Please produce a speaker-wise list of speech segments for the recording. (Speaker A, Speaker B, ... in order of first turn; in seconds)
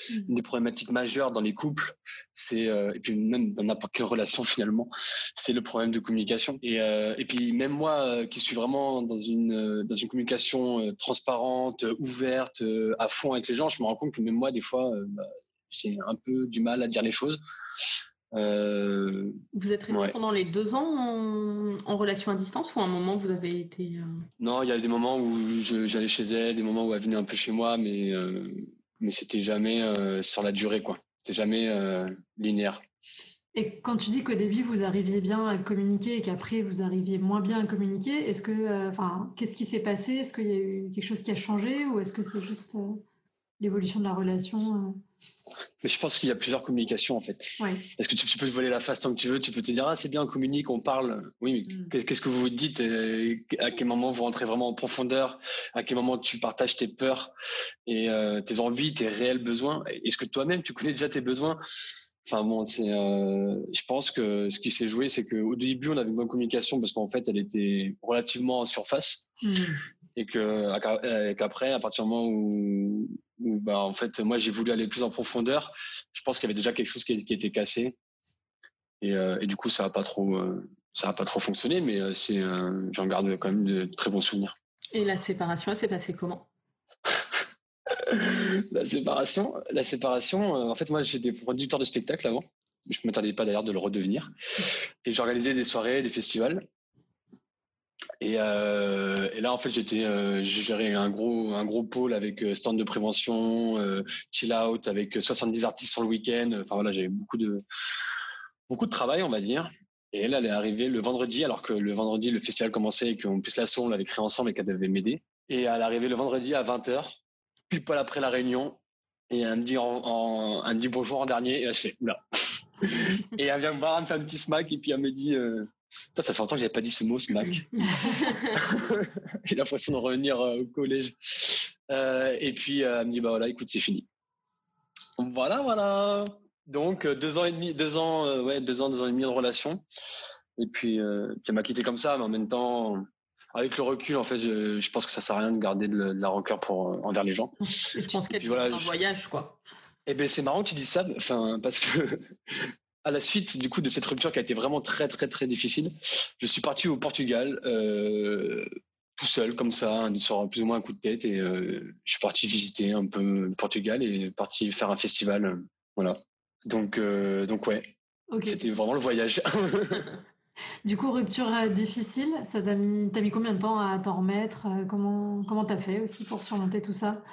Speaker A: 0.3-17.4, 18.3-19.4, 19.9-20.1, 24.4-32.8, 45.8-57.3, 57.9-61.6, 62.2-69.3, 70.2-78.0, 79.0-84.5, 87.9-96.6, 98.2-107.6, 108.7-118.8, 119.3-127.9, 128.5-134.1, 135.2-139.8, 140.6-147.6, 148.3-148.9, 150.1-170.1
Speaker B: 19.5-24.2, 84.9-86.5, 127.9-128.5, 147.9-149.6
Speaker C: 33.5-43.0, 43.6-45.0, 47.6-47.9, 51.7-51.9, 69.4-69.8, 168.3-168.6, 170.8-177.2